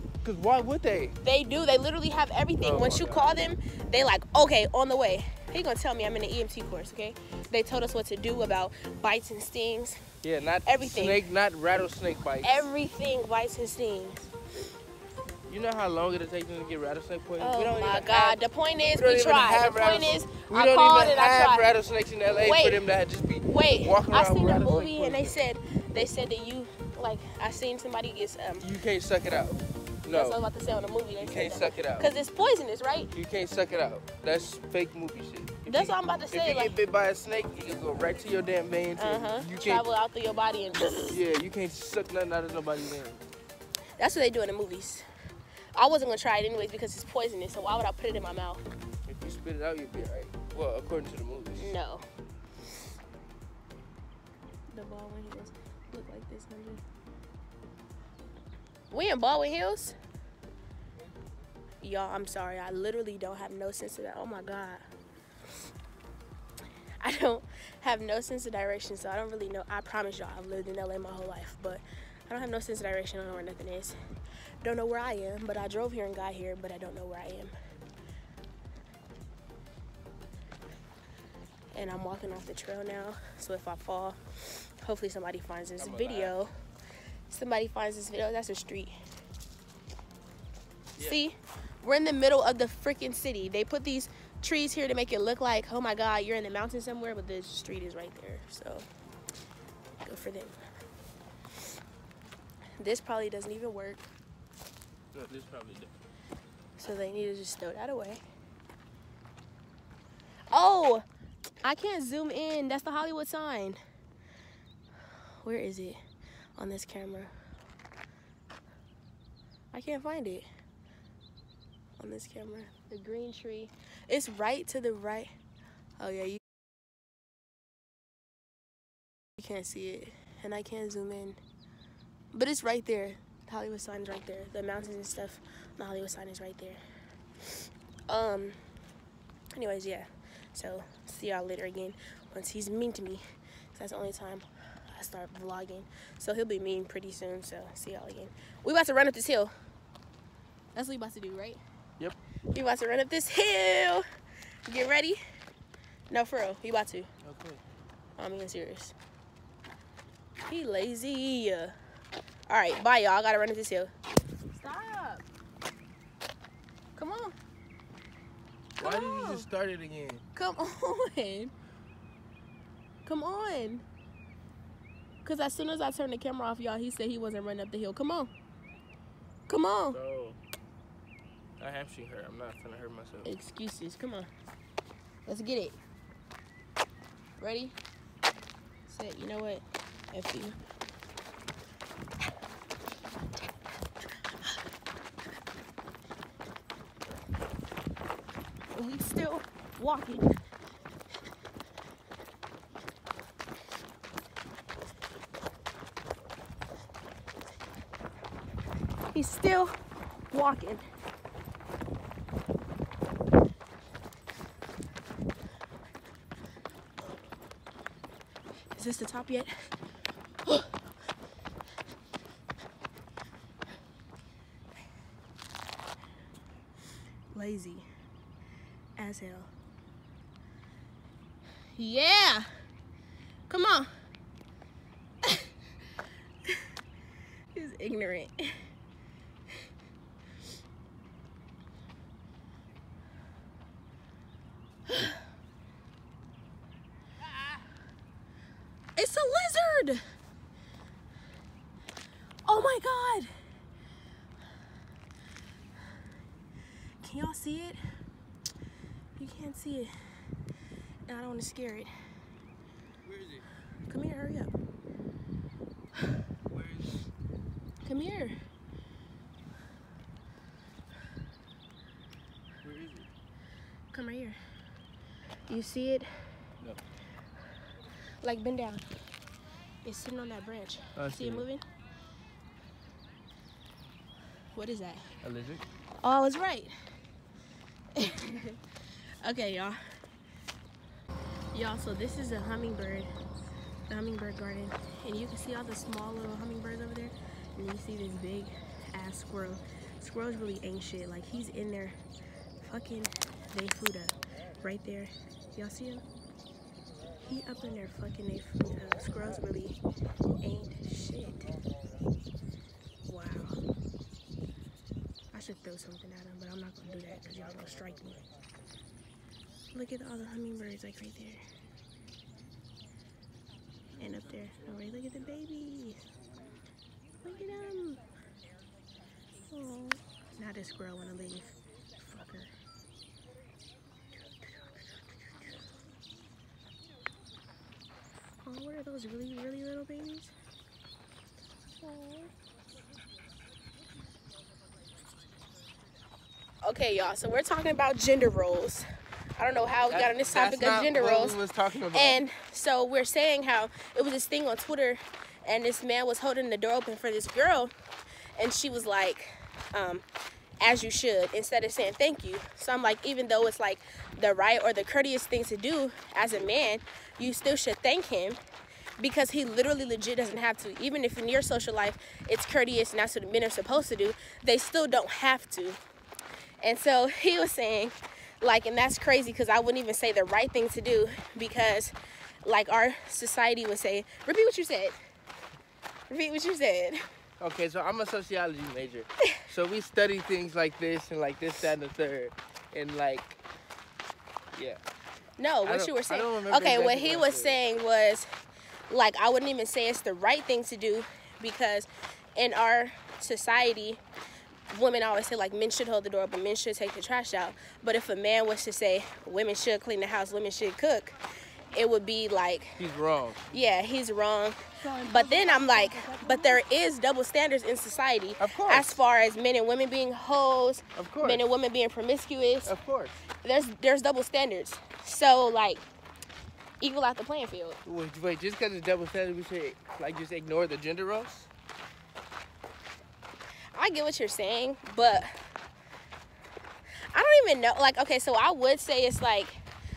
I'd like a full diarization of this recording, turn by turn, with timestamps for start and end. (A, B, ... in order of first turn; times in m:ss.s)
0:00.2-0:01.2 A
0:01.2-0:10.0 B
0:02.6-0:03.3 A
0:10.2-0:12.6 A
0:10.7-0:11.2 B
0:12.4-0:14.3 B
0:15.5-0:18.4 A
0:17.4-0:21.7 B
0:19.0-0:25.4 A
0:22.4-0:22.8 B
0:23.5-0:28.7 B
0:28.6-0:30.4 A
0:30.1-0:33.1 B
0:31.2-0:32.1 A
0:33.1-0:39.8 A
0:35.7-0:36.7 B
0:39.0-0:41.2 B
0:41.1-0:43.2 A
0:44.0-0:45.0 B
0:45.8-0:48.6 B
0:49.1-0:51.7 A
0:51.6-0:52.0 B
0:54.7-0:56.8 B
0:58.9-1:00.0 B
1:01.8-1:04.8 B
1:07.0-1:14.0 B
1:14.6-1:17.5 B
1:21.7-1:26.5 B
1:25.8-1:26.4 A
1:27.3-1:29.0 B
1:31.0-1:38.9 B
1:40.0-1:40.5 B
1:42.8-1:44.0 B
1:45.1-1:45.9 A
1:46.8-1:48.2 B
1:50.5-1:51.0 B
1:51.6-1:53.8 B
1:55.4-1:56.0 B
1:56.6-1:57.3 B
1:59.7-2:00.5 B
2:02.0-2:05.3 B
2:06.0-2:06.4 B
2:09.4-2:11.4 B
2:12.3-2:16.8 B
2:18.1-2:18.6 B
2:19.5-2:23.2 B
2:23.7-2:29.5 B
2:30.7-2:31.6 B
2:32.5-2:34.0 B
2:34.7-2:35.2 B
2:36.1-2:37.1 B
2:37.2-2:37.6 A
2:38.2-2:39.0 B
2:40.4-2:41.7 B
2:42.5-2:43.9 B
2:44.5-2:45.2 B
2:47.0-2:47.3 B
2:48.8-2:50.2 A
2:48.8-2:49.5 B
2:50.3-2:51.5 B
2:53.0-2:53.8 B
2:55.2-2:58.3 B
2:59.5-3:00.0 B
2:59.9-3:00.4 A
3:01.6-3:03.3 A
3:03.2-3:04.3 B
3:05.2-3:05.8 B
3:07.4-3:07.8 B
3:08.8-3:10.6 B
3:18.7-3:20.3 B
3:29.1-3:29.7 B
3:30.3-3:30.8 B
3:38.7-3:39.5 B
3:47.3-3:47.8 B
3:49.0-3:49.5 B
3:51.7-3:52.5 B
3:53.5-3:53.9 B
3:55.2-3:55.5 B
3:57.5-3:58.5 B
4:04.9-4:05.2 B
4:09.0-4:10.0 B
4:12.5-4:13.3 B
4:17.0-4:17.8 B
4:19.2-4:19.9 B
4:21.1-4:21.9 B
4:23.1-4:23.5 A
4:23.9-4:24.5 B
4:26.5-4:27.0 A
4:27.8-4:28.4 B
4:32.6-4:33.1 A
4:33.9-4:34.4 B
4:35.5-4:36.1 B
4:38.2-4:38.9 B
4:39.8-4:41.6 B
4:41.0-4:41.5 A
4:44.5-4:45.1 B
4:45.2-4:45.6 A
4:46.0-4:46.7 B
4:48.0-4:48.6 B
4:49.2-4:49.8 B
4:51.5-4:53.1 B
4:53.9-5:02.0 B
5:02.6-5:06.0 B
5:07.2-5:09.8 B
5:10.4-5:11.5 B
5:13.0-5:13.6 B
5:15.3-5:18.2 B
5:19.7-5:21.4 B
5:24.0-5:26.0 B
5:27.2-5:28.0 B
5:29.5-5:32.5 B
5:38.4-5:40.3 B
5:41.8-5:42.3 B
5:46.6-5:48.8 B
5:49.4-5:51.4 B
5:49.9-5:52.2 A
5:51.9-5:57.7 B
5:58.4-6:00.0 B
6:00.6-6:08.4 B
6:09.0-6:15.8 B
6:16.6-6:25.0 B
6:26.1-6:27.0 B
6:27.4-6:33.4 A
6:34.6-6:34.8 A
6:35.4-6:38.3 B
6:35.6-6:37.6 A
6:38.9-6:44.0 B
6:44.7-6:51.2 B
6:51.7-6:52.8 B
6:52.8-6:53.6 A
6:53.5-7:02.7 B
6:54.8-6:56.6 A
6:58.4-6:59.0 A
7:01.0-7:01.4 A
7:02.6-7:03.2 A
7:03.4-7:05.8 B
7:06.8-7:07.8 B
7:07.9-7:11.5 A
7:13.7-7:15.3 B
7:17.1-7:19.6 B